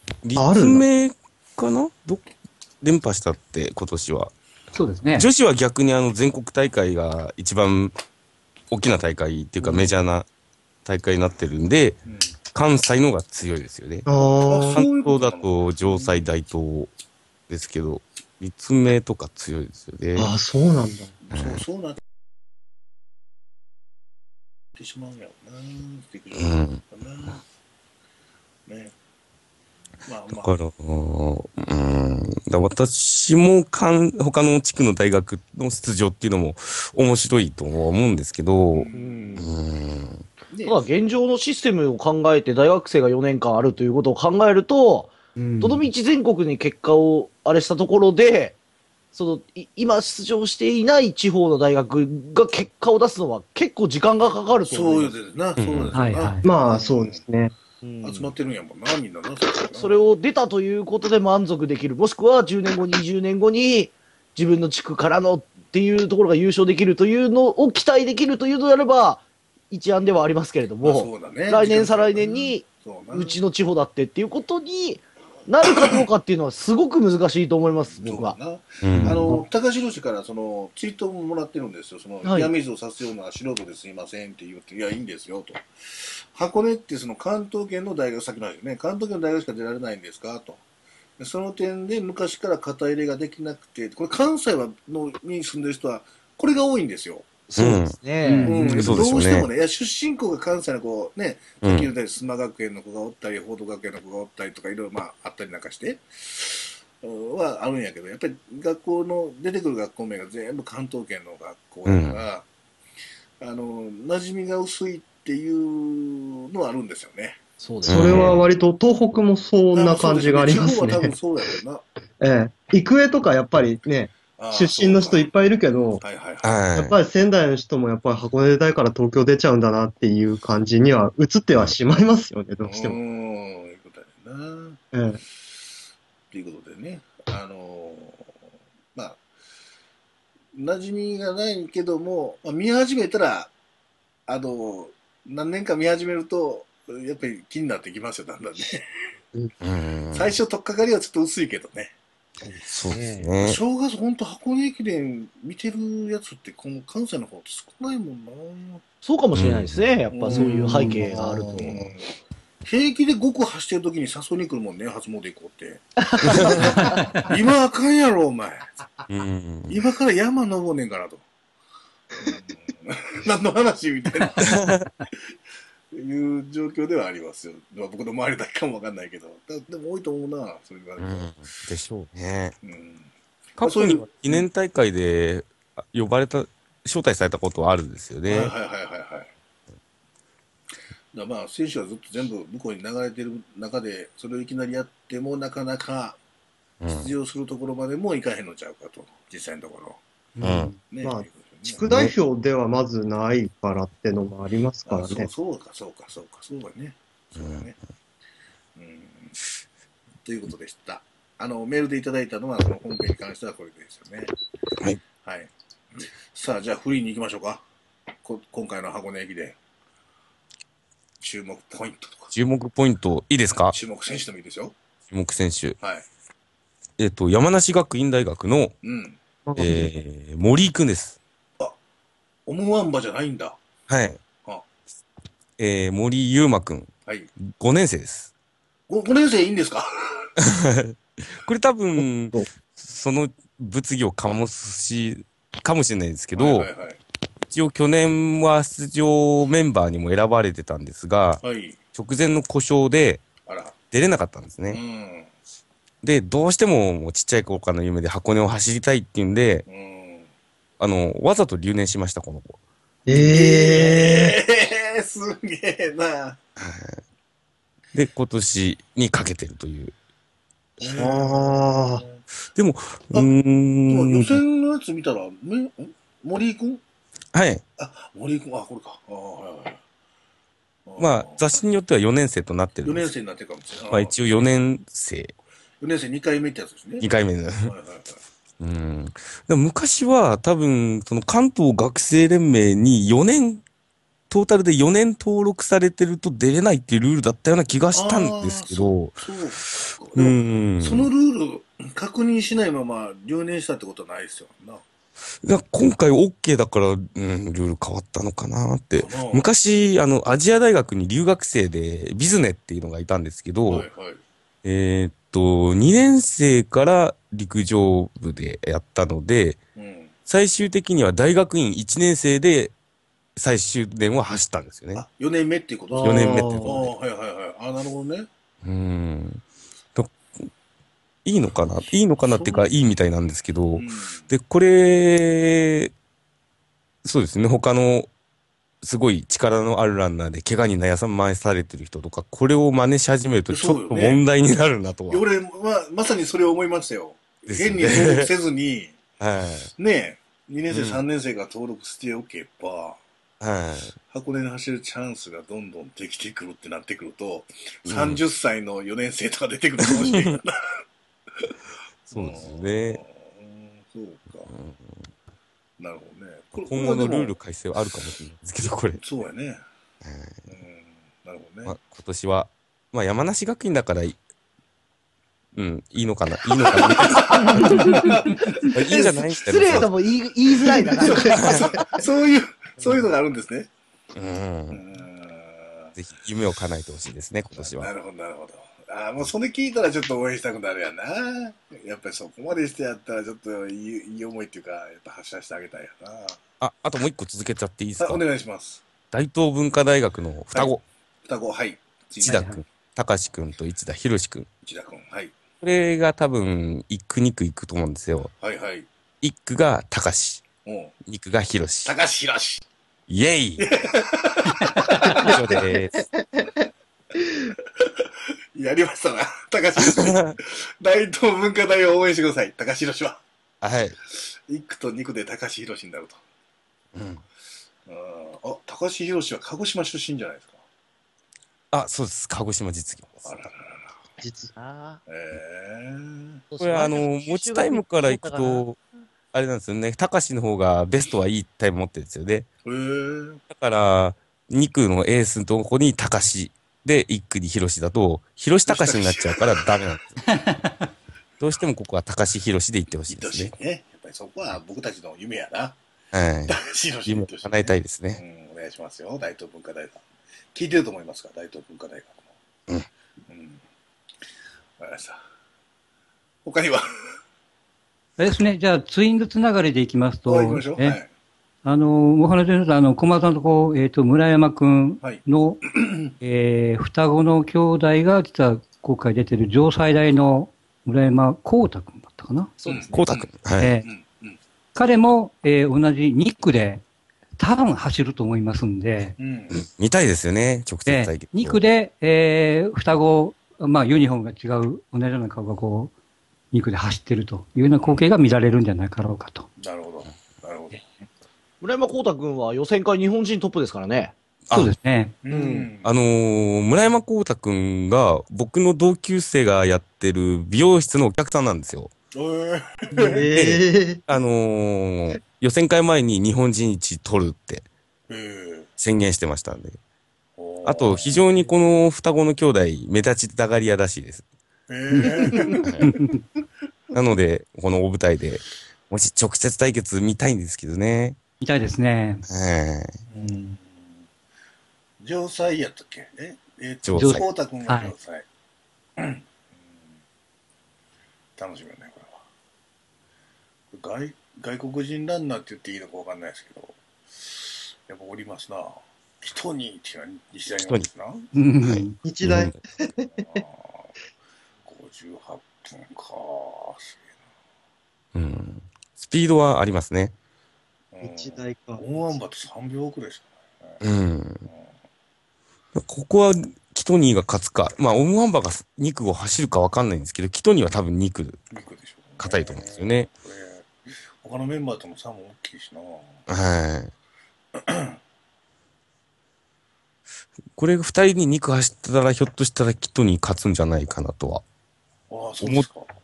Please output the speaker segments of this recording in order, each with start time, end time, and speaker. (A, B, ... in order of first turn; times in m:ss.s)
0:00.2-0:02.2 A
0:00.4-0:00.8 B
0:02.8-0:04.3 A
0:04.8-0:05.3 C
0:05.2-0:07.9 A
0:08.7-0:10.3 A
0:10.8-0:12.0 A
0:12.1-0:12.3 D
0:12.5-0:14.1 A
0:14.1-0:14.8 B
0:14.4-0:16.3 D
0:14.7-0:16.9 A
0:17.5-0:20.3 A
0:20.2-0:21.1 B
0:21.2-0:22.0 D
0:21.3-0:21.6 A
0:24.8-0:27.4 D
0:26.4-0:26.8 A
0:28.7-0:28.9 D
0:30.0-0:30.5 D
0:30.3-0:40.2 A
0:38.7-0:39.4 D
0:38.9-0:39.5 E
0:40.5-0:40.8 D
0:40.6-0:48.6 E
0:45.4-0:45.8 B
0:49.1-0:55.2 E
0:54.7-0:57.2 D
0:55.6-0:55.9 A
0:55.9-0:56.5 C
0:56.4-0:57.5 B
0:57.8-0:58.3 E
0:58.0-1:00.0 D
0:59.8-1:18.4 E
1:10.8-1:13.4 D
1:17.9-1:30.6 D
1:18.8-1:19.3 A
1:22.2-1:22.5 E
1:31.2-1:37.3 D
1:37.5-1:38.9 E
1:37.6-1:38.0 A
1:38.2-1:38.9 C
1:38.4-1:52.5 D
1:38.7-1:39.5 A
1:41.6-1:41.9 A
1:51.9-1:52.2 A
1:53.4-1:57.4 D
1:57.6-1:58.5 E
1:57.8-2:01.1 B
1:57.8-1:58.4 A
1:59.7-2:01.8 D
2:02.2-2:06.0 B
2:04.4-2:05.3 D
2:06.0-2:06.6 D
2:06.4-2:07.0 A
2:06.8-2:13.0 B
2:12.6-2:14.8 D
2:14.9-2:15.2 B
2:16.3-2:18.3 D
2:20.5-2:23.5 D
2:24.3-2:28.9 D
2:29.6-2:30.3 A
2:30.1-2:31.9 D
2:32.6-2:33.6 A
2:33.0-2:38.8 D
2:39.0-2:41.8 E
2:39.3-2:39.9 A
2:40.1-2:42.0 D
2:41.2-2:41.7 B
2:42.6-2:48.7 D
2:46.0-2:46.7 E
2:46.2-2:46.8 A
2:46.7-2:47.3 C
2:49.1-2:49.8 A
2:49.7-2:51.2 D
2:52.2-2:54.6 D
2:54.4-2:54.9 A
2:55.9-3:01.3 D
3:01.0-3:02.6 A
3:02.6-3:04.5 D
3:03.6-3:08.5 A
3:08.3-3:09.3 D
3:11.1-3:16.2 D
3:16.8-3:17.1 A
3:16.9-3:20.0 D
3:20.4-3:20.7 A
3:20.8-3:21.8 D
3:21.0-3:25.3 B
3:21.8-3:22.1 A
3:24.9-3:27.8 D
3:27.4-3:27.7 A
3:28.8-3:29.4 D
3:30.2-3:34.3 D
3:35.2-3:37.6 D
3:38.2-3:39.6 D
3:41.2-3:42.3 D
3:42.3-3:43.8 A
3:43.5-3:44.8 D
3:45.1-3:45.8 A
3:45.8-3:46.1 D
3:47.0-3:48.7 A
3:48.8-3:49.2 D
3:49.5-3:49.9 B
3:49.6-3:51.2 A
3:52.5-3:53.6 D
3:53.9-3:54.2 A
3:55.6-3:56.9 A
3:57.5-3:58.3 A
3:58.9-4:00.3 D
4:00.4-4:06.7 A
4:02.0-4:02.4 B
4:06.4-4:07.0 D
4:07.5-4:11.4 A
4:11.4-4:11.8 D
4:11.9-4:13.2 A
4:13.5-4:13.8 D
4:13.9-4:14.8 A
4:14.7-4:15.3 D
4:16.0-4:19.7 A
4:19.7-4:20.3 D
4:20.8-4:22.6 A
4:23.1-4:24.4 B
4:23.1-4:26.4 D
4:26.6-4:27.0 A
4:27.9-4:29.9 A
4:30.8-4:32.2 D
4:30.8-4:32.0 B
4:32.6-4:34.4 A
4:33.9-4:36.8 D
4:37.3-4:37.6 A
4:37.8-4:39.8 D
4:40.9-4:41.5 D
4:41.0-4:43.1 A
4:42.8-4:44.2 D
4:43.9-4:45.3 A
4:45.8-4:47.1 D
4:47.0-4:47.7 A
4:47.6-4:48.2 D
4:48.6-4:53.6 A
4:54.3-4:59.2 A
4:57.9-5:04.8 D
5:00.2-5:01.1 A
5:05.4-5:13.9 A
5:09.0-5:09.5 D
5:13.7-5:14.2 D
5:14.6-5:19.6 A
5:19.8-5:20.1 D
5:20.3-5:22.7 A
5:23.4-5:25.0 A
5:25.0-5:28.3 D
5:25.9-5:26.8 B
5:26.0-5:26.9 A
5:28.6-5:29.4 A
5:31.2-5:35.9 A
5:32.2-5:32.7 D
5:33.7-5:34.3 D
5:37.0-5:38.1 A
5:38.8-5:45.2 A
5:43.5-5:44.2 D
5:45.1-5:49.0 D
5:47.5-5:48.3 A
5:49.2-5:49.7 A
5:49.8-5:53.0 D
5:50.7-5:51.0 A
5:53.4-5:53.9 A
5:54.1-6:00.6 D
5:57.9-5:58.2 A
5:59.9-6:00.4 A
6:02.1-6:03.0 A
6:02.1-6:04.5 D
6:04.5-6:04.9 A
6:05.8-6:07.4 D
6:06.6-6:09.0 A
6:09.0-6:09.6 D
6:10.0-6:10.3 A
6:10.5-6:11.8 D
6:11.7-6:14.2 A
6:15.6-6:19.9 A
6:16.5-6:19.0 D
6:17.6-6:22.0 E
6:20.8-6:23.7 D
6:21.0-6:21.7 A
6:24.2-6:24.8 A
6:24.7-6:25.9 D
6:26.0-6:27.9 A
6:27.6-6:36.4 D
6:36.6-6:38.2 A
6:38.0-6:38.8 D
6:39.1-6:40.8 A
6:41.3-6:42.6 D
6:42.2-6:44.5 A
6:44.6-6:45.4 D
6:45.6-6:48.3 A
6:48.4-6:48.9 D
6:49.2-6:50.4 A
6:50.6-6:50.9 D
6:51.1-6:51.9 A
6:51.8-6:52.6 D
6:53.1-6:53.7 A
6:53.6-6:55.6 D
6:54.8-6:56.1 A
6:55.3-6:56.6 B
6:57.5-7:03.2 D
6:59.8-7:00.4 A
7:03.6-7:04.0 A
7:04.2-7:06.2 D
7:07.0-7:07.2 A
7:07.9-7:10.6 D
7:11.7-7:13.3 A
7:13.2-7:14.0 D
7:14.2-7:14.5 B
7:14.6-7:15.0 E
7:15.1-7:16.4 D
7:16.5-7:18.6 E
7:16.6-7:18.8 A
7:19.3-7:22.5 A
7:22.6-7:23.4 D
7:23.5-7:30.2 A
7:28.7-7:29.8 D
7:30.3-7:30.7 C
7:31.4-7:33.5 A
7:33.1-7:35.8 D
7:36.1-7:36.6 A
7:36.5-7:42.3 D
7:37.1-7:38.2 A
7:43.3-7:43.6 D
7:44.8-7:45.2 D
7:46.4-7:46.9 D
7:48.2-7:51.0 C
7:50.3-7:51.1 D
7:51.6-8:02.5 C
7:55.0-7:56.1 D
8:02.6-8:03.0 E
8:02.7-8:03.3 D
8:02.9-8:03.8 A
8:03.6-8:03.9 C
8:03.8-8:04.4 D
8:04.8-8:06.8 C
8:07.4-8:09.2 C
8:09.2-8:09.6 D
8:09.5-8:11.6 A
8:10.9-8:15.9 C
8:16.5-8:19.5 C
8:19.6-8:20.8 D
8:21.6-8:24.1 E
8:24.5-8:25.2 C
8:25.2-8:25.9 D
8:25.3-8:25.7 E
8:25.8-8:31.9 A
8:32.1-8:33.2 D
8:33.0-8:34.0 B
8:33.3-8:37.7 A
8:38.1-8:38.7 D
8:38.8-8:39.8 A
8:40.4-8:41.3 D
8:40.6-8:44.2 A
8:44.7-8:45.7 D
8:45.6-8:46.0 A
8:45.8-8:46.2 C
8:46.9-8:51.2 A
8:51.4-8:52.3 C
8:52.3-8:52.9 A
8:53.1-8:53.9 D
8:55.0-8:58.3 D
8:56.8-8:57.3 A
8:57.0-8:57.9 C
8:59.0-8:59.3 D
9:01.4-9:02.2 D
9:03.7-9:11.3 D
9:11.3-9:12.0 C
9:11.6-9:12.6 A
9:12.0-9:13.1 B
9:13.2-9:13.9 D
9:14.6-9:17.1 D
9:18.1-9:20.1 A
9:20.9-9:23.8 D
9:21.0-9:21.8 B
9:23.8-9:24.5 A
9:25.8-9:31.4 A
9:31.5-9:36.2 D
9:32.2-9:33.1 A
9:36.3-9:36.9 A
9:37.6-9:38.0 D
9:40.6-9:44.4 A
9:45.1-9:45.9 D
9:45.4-9:45.7 A